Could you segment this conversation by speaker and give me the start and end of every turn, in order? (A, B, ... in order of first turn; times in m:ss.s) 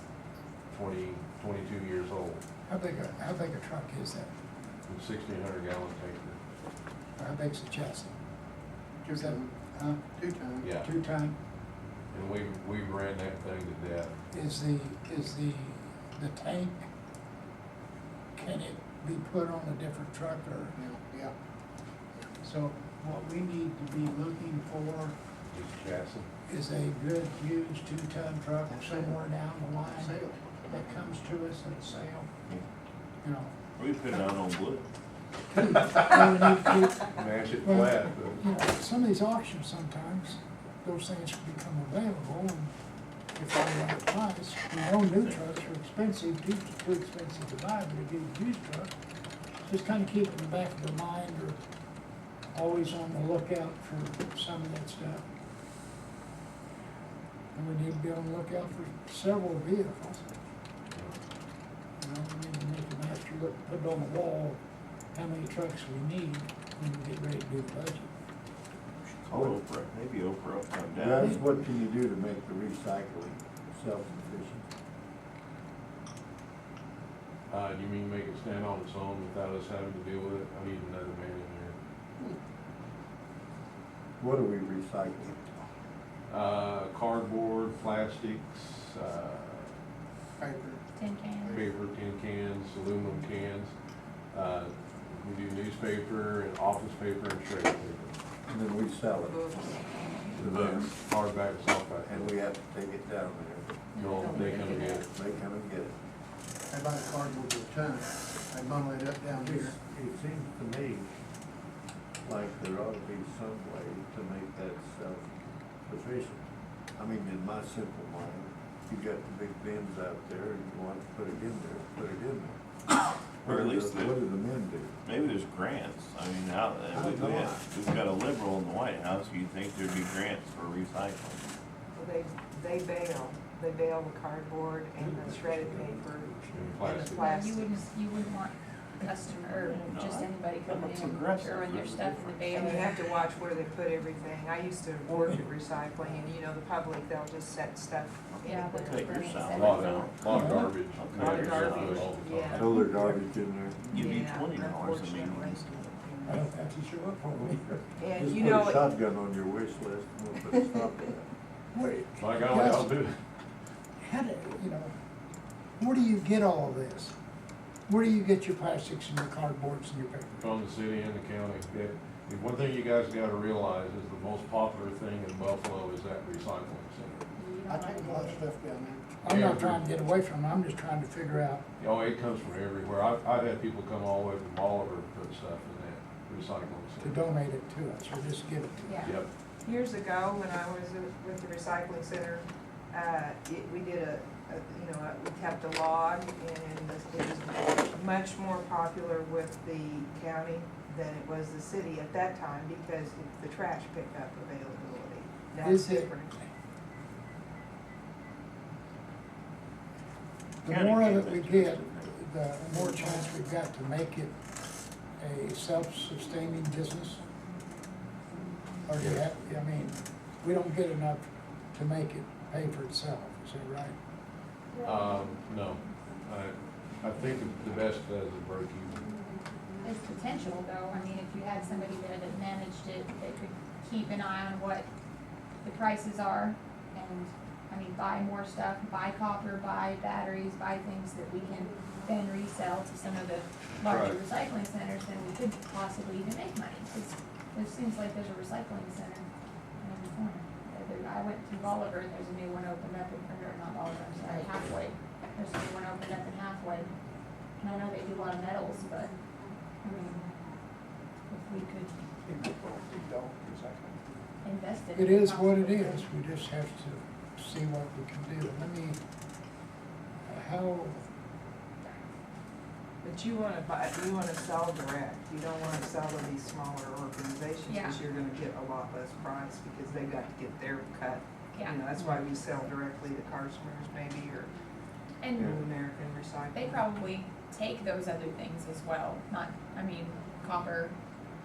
0:00.7-0:02.4 A
0:02.7-0:04.3 B
0:04.9-0:06.4 A
0:07.2-0:08.1 B
0:09.0-0:09.5 C
0:09.1-0:10.0 B
0:10.2-0:10.7 C
0:10.6-0:10.9 A
0:10.7-0:11.3 B
0:12.1-0:14.1 A
0:14.3-0:16.8 B
0:18.4-0:20.8 B
0:20.8-0:21.3 C
0:22.4-0:25.2 B
0:25.5-0:26.3 A
0:26.5-0:32.3 B
0:28.8-0:29.1 C
0:29.9-0:30.8 C
0:33.2-0:33.5 B
0:33.8-0:34.8 D
0:35.5-0:42.7 B
0:37.1-0:38.5 A
0:43.4-0:48.9 B
0:49.7-0:51.6 B
0:52.5-0:55.2 B
0:57.5-1:00.4 B
1:00.9-1:01.2 A
1:02.0-1:04.6 B
1:05.1-1:08.1 B
1:09.0-1:11.2 D
1:09.3-1:09.6 E
1:11.0-1:14.6 E
1:11.2-1:11.5 B
1:17.5-1:21.8 A
1:24.2-1:25.4 E
1:26.3-1:29.7 A
1:30.4-1:30.8 C
1:31.0-1:31.6 F
1:31.4-1:33.7 A
1:34.3-1:38.1 A
1:38.5-1:39.4 E
1:39.2-1:39.9 G
1:40.3-1:42.3 A
1:40.4-1:40.9 E
1:42.0-1:43.7 E
1:43.9-1:45.0 F
1:44.0-1:45.0 A
1:44.3-1:45.9 E
1:46.7-1:49.8 C
1:49.4-1:51.1 E
1:52.2-1:55.3 E
1:55.9-1:56.4 E
1:57.0-2:02.6 E
2:03.4-2:04.2 D
2:03.4-2:05.0 E
2:05.0-2:11.4 D
2:06.9-2:07.6 E
2:11.9-2:16.3 G
2:15.0-2:16.8 B
2:16.5-2:17.2 A
2:16.8-2:17.8 G
2:17.1-2:23.0 F
2:19.6-2:22.5 D
2:22.5-2:29.6 G
2:25.1-2:25.4 B
2:28.4-2:30.1 F
2:28.8-2:32.0 D
2:29.6-2:32.7 A
2:30.3-2:30.7 B
2:31.1-2:32.8 G
2:32.5-2:33.9 E
2:32.7-2:33.2 B
2:33.9-2:36.0 D
2:33.9-2:36.5 G
2:36.2-2:38.0 B
2:38.0-2:38.8 G
2:38.1-2:41.3 E
2:41.7-2:42.9 B
2:42.2-2:43.1 A
2:44.0-2:44.9 B
2:45.8-2:47.1 B
2:47.9-2:50.4 B
2:50.3-2:57.3 A
2:57.4-2:58.5 F
2:57.7-2:59.1 C
2:59.2-3:01.6 B
2:59.2-2:59.8 A
3:01.8-3:07.3 A
3:07.0-3:09.2 B
3:08.9-3:09.1 F
3:09.0-3:09.3 A
3:09.6-3:26.5 G
3:25.6-3:26.1 B
3:30.6-3:34.3 B
3:30.6-3:32.1 D
3:35.2-3:37.2 B
3:38.9-3:43.9 B
3:39.0-3:39.2 A
3:44.8-3:49.0 A
3:49.8-3:54.8 F
3:55.6-4:09.3 F
4:03.8-4:04.2 A
4:09.8-4:16.9 F
4:17.6-4:19.1 F
4:19.8-4:20.2 F
4:21.3-4:22.0 F
4:22.2-4:24.0 C
4:24.4-4:26.1 F
4:24.9-4:29.0 B
4:30.2-4:31.0 B
4:33.0-4:44.5 G
4:37.7-4:38.0 F
4:41.5-4:41.8 F
4:45.2-4:45.6 F
4:45.3-4:46.9 G
4:46.5-4:51.0 F